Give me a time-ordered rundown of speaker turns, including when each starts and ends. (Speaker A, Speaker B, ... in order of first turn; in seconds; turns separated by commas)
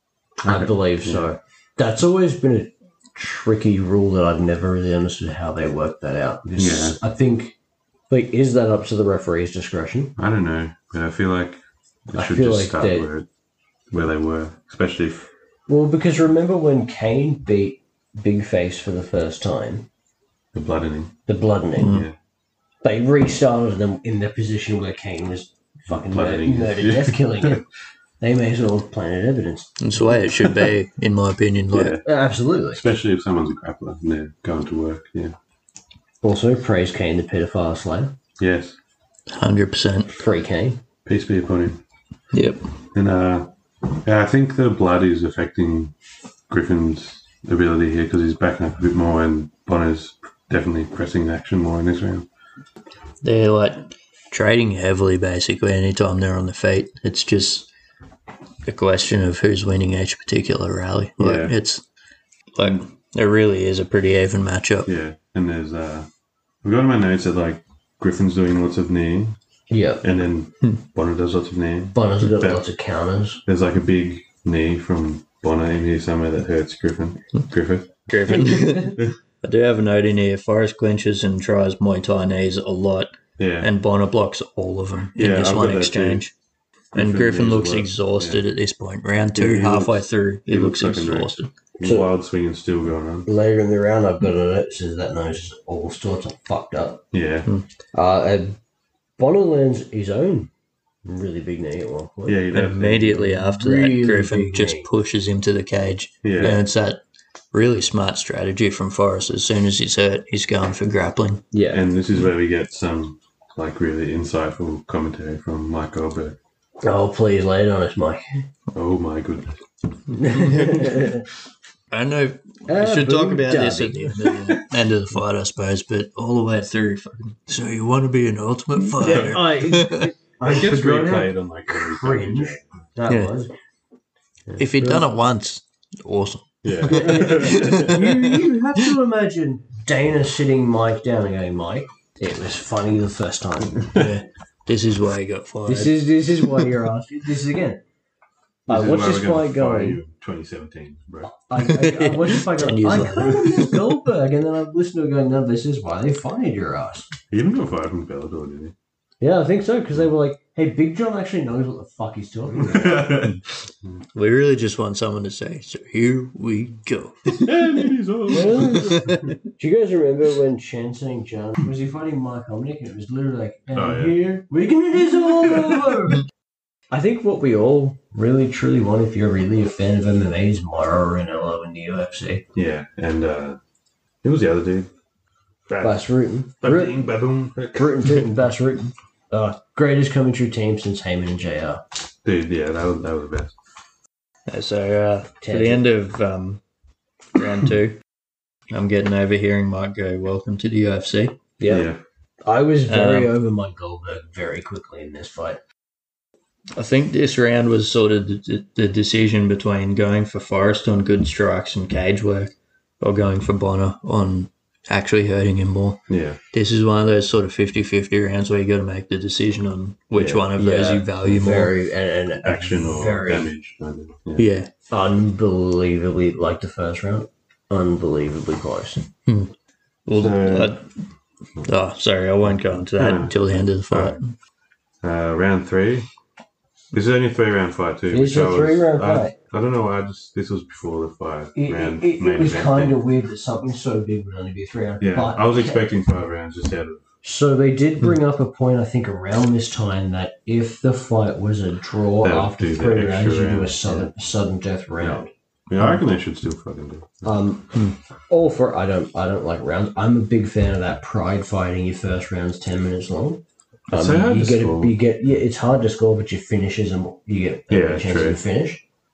Speaker A: 0.4-1.2, Speaker B: 0.5-7.5, Speaker A: 6.6-7.0, Speaker B: 8.1-10.2, Speaker A: 10.2-13.3, Speaker B: 12.1-13.1, Speaker A: 13.9-15.3, Speaker B: 15.7-19.9, Speaker A: 20.5-21.2, Speaker B: 21.3-22.0, Speaker C: 21.8-22.1, Speaker A: 21.9-22.1, Speaker B: 22.8-27.6, Speaker A: 25.9-27.6, Speaker B: 28.2-29.8, Speaker C: 29.8-32.0, Speaker A: 30.4-30.7, Speaker A: 31.7-32.0, Speaker B: 32.0-32.8, Speaker A: 32.7-35.4, Speaker B: 36.2-38.2, Speaker A: 38.4-38.8, Speaker C: 39.3-40.1, Speaker B: 40.1-40.8, Speaker A: 41.0-41.8, Speaker C: 42.3-42.7, Speaker A: 42.9-43.5, Speaker A: 44.0-45.9, Speaker A: 46.5-52.3, Speaker C: 53.2-57.7, Speaker C: 58.7-61.8, Speaker A: 61.2-61.5, Speaker C: 62.6-64.9, Speaker A: 64.9-66.1, Speaker A: 66.6-69.4, Speaker B: 69.7-70.0, Speaker A: 70.0-72.6, Speaker B: 71.9-73.4, Speaker A: 73.5-79.2, Speaker C: 78.1-86.3, Speaker A: 83.4-83.7, Speaker A: 85.2-86.2, Speaker A: 86.9-88.4, Speaker C: 87.0-91.5, Speaker A: 89.3-93.3, Speaker B: 91.8-92.1, Speaker B: 93.3-97.0, Speaker A: 97.1-97.5, Speaker B: 97.9-98.6, Speaker B: 99.2-100.5, Speaker B: 101.0-102.5, Speaker A: 102.3-103.3, Speaker C: 102.5-107.0, Speaker B: 103.2-104.9, Speaker A: 106.2-106.6, Speaker C: 107.5-111.5, Speaker B: 111.5-111.8, Speaker A: 111.7-116.4, Speaker B: 116.8-118.2, Speaker A: 118.7-119.6, Speaker B: 120.1-121.3, Speaker C: 121.9-130.1, Speaker B: 122.7-124.5, Speaker B: 128.9-133.5, Speaker A: 129.1-129.4, Speaker A: 130.4-132.7, Speaker C: 133.1-133.3, Speaker B: 134.5-135.1, Speaker C: 134.6-138.4, Speaker A: 136.6-138.1, Speaker B: 136.9-144.0, Speaker C: 143.9-146.7, Speaker B: 145.7-147.8, Speaker B: 148.7-150.0, Speaker A: 148.7-151.3, Speaker B: 151.4-157.1, Speaker C: 151.6-153.9, Speaker A: 157.3-158.7, Speaker B: 159.2-163.3, Speaker A: 162.5-164.0, Speaker C: 164.2-167.8, Speaker A: 167.3-168.9, Speaker B: 168.3-176.2, Speaker C: 168.5-169.3, Speaker A: 173.7-174.2, Speaker A: 175.1-176.0, Speaker B: 176.9-182.4, Speaker A: 182.6-183.6, Speaker A: 184.2-184.9, Speaker A: 185.7-186.1, Speaker B: 185.8-187.1, Speaker A: 186.6-188.2, Speaker B: 187.7-191.8, Speaker A: 192.2-193.5, Speaker C: 194.5-196.6, Speaker B: 195.4-195.8, Speaker C: 197.3-198.0, Speaker C: 198.7-201.4, Speaker B: 201.6-201.9, Speaker A: 201.7-202.0, Speaker B: 202.4-205.6, Speaker C: 202.9-203.3, Speaker C: 206.8-221.7, Speaker A: 216.1-216.4, Speaker A: 220.2-220.5, Speaker B: 220.6-223.5, Speaker A: 222.4-224.5, Speaker C: 224.4-224.7, Speaker B: 224.9-229.1, Speaker C: 229.3-229.5, Speaker C: 230.1-230.9, Speaker A: 230.1-230.8, Speaker C: 231.6-234.3, Speaker A: 232.5-233.4, Speaker A: 233.9-234.2, Speaker A: 235.0-236.1, Speaker A: 236.9-243.0, Speaker B: 238.1-239.4, Speaker B: 241.6-245.9, Speaker A: 245.0-247.0, Speaker B: 247.2-255.3, Speaker A: 252.2-254.1, Speaker A: 255.0-257.3, Speaker B: 257.2-257.7, Speaker B: 258.3-268.8, Speaker A: 263.9-264.9, Speaker A: 267.7-268.4